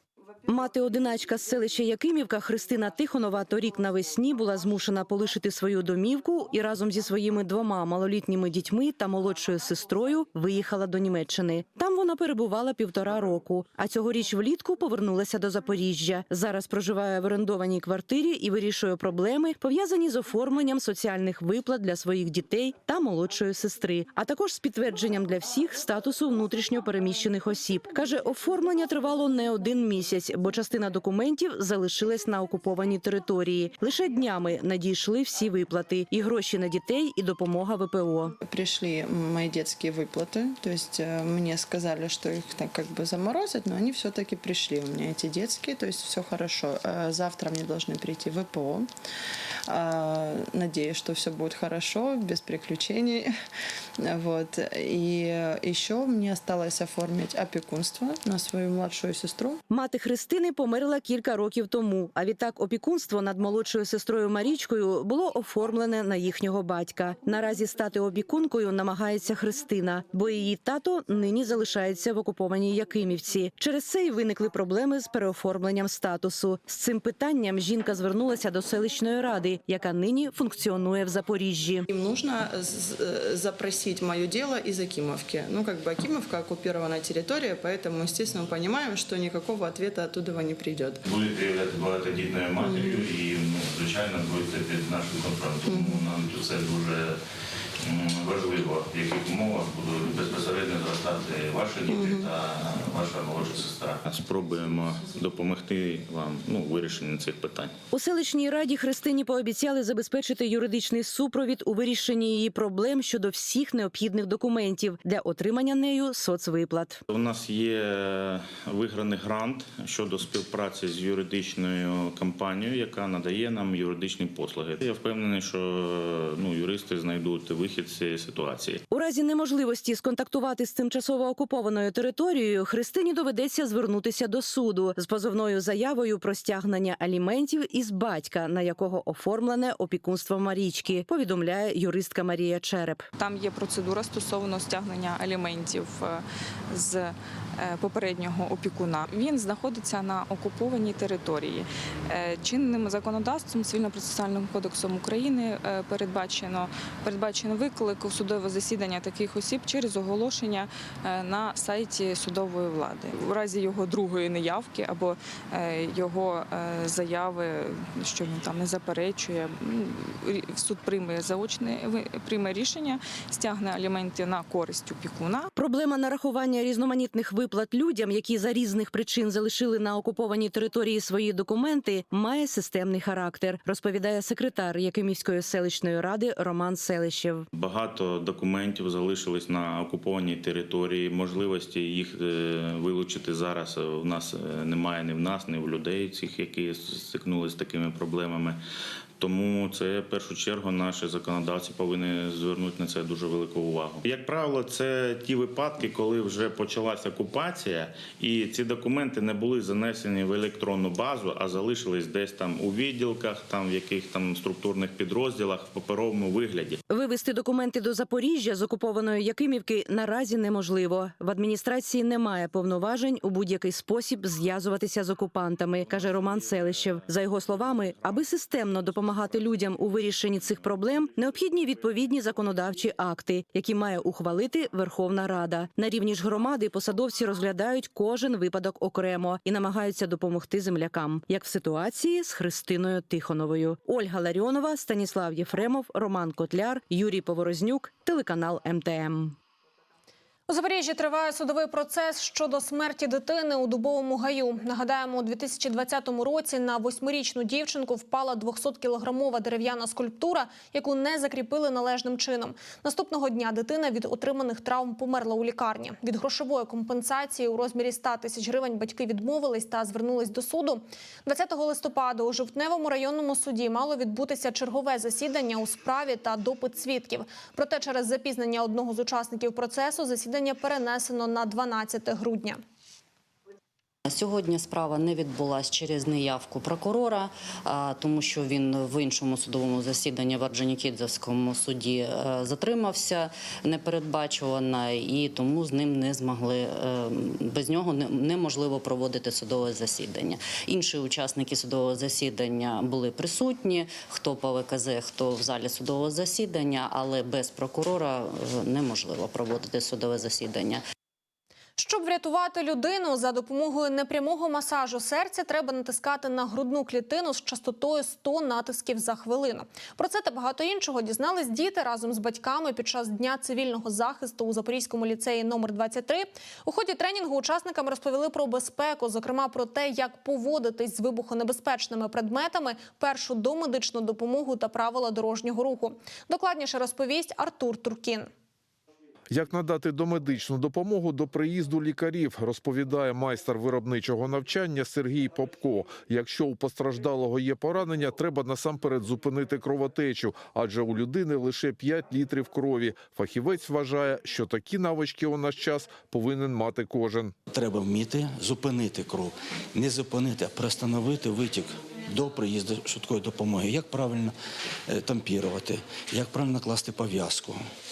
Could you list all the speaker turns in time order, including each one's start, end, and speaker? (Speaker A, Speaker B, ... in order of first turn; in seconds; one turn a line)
Speaker A: 0.5-38.3
Speaker B: 38.4-48.9
Speaker B: 49.7-53.3
Speaker B: 54.0-59.6
Speaker A: 59.7-81.9
Speaker B: 81.9-91.0
Speaker C: 91.0-97.2
Speaker B: 92.6-93.0
Speaker B: 95.7-96.0
Speaker C: 97.8-107.7
Speaker B: 101.9-102.3
Speaker A: 107.9-117.0
Speaker C: 117.1-128.8
Speaker A: 128.9-143.1
Speaker D: 143.2-175.5
Speaker A: 175.6-187.5
Speaker C: 187.5-198.6
Speaker C: 199.2-216.8
Speaker A: 216.9-249.4
Speaker E: 250.5-282.6
Speaker F: 284.1-310.8
Speaker E: 311.8-338.3
Speaker G: 339.3-357.3
Speaker H: 357.5-364.3
Speaker H: 364.9-367.6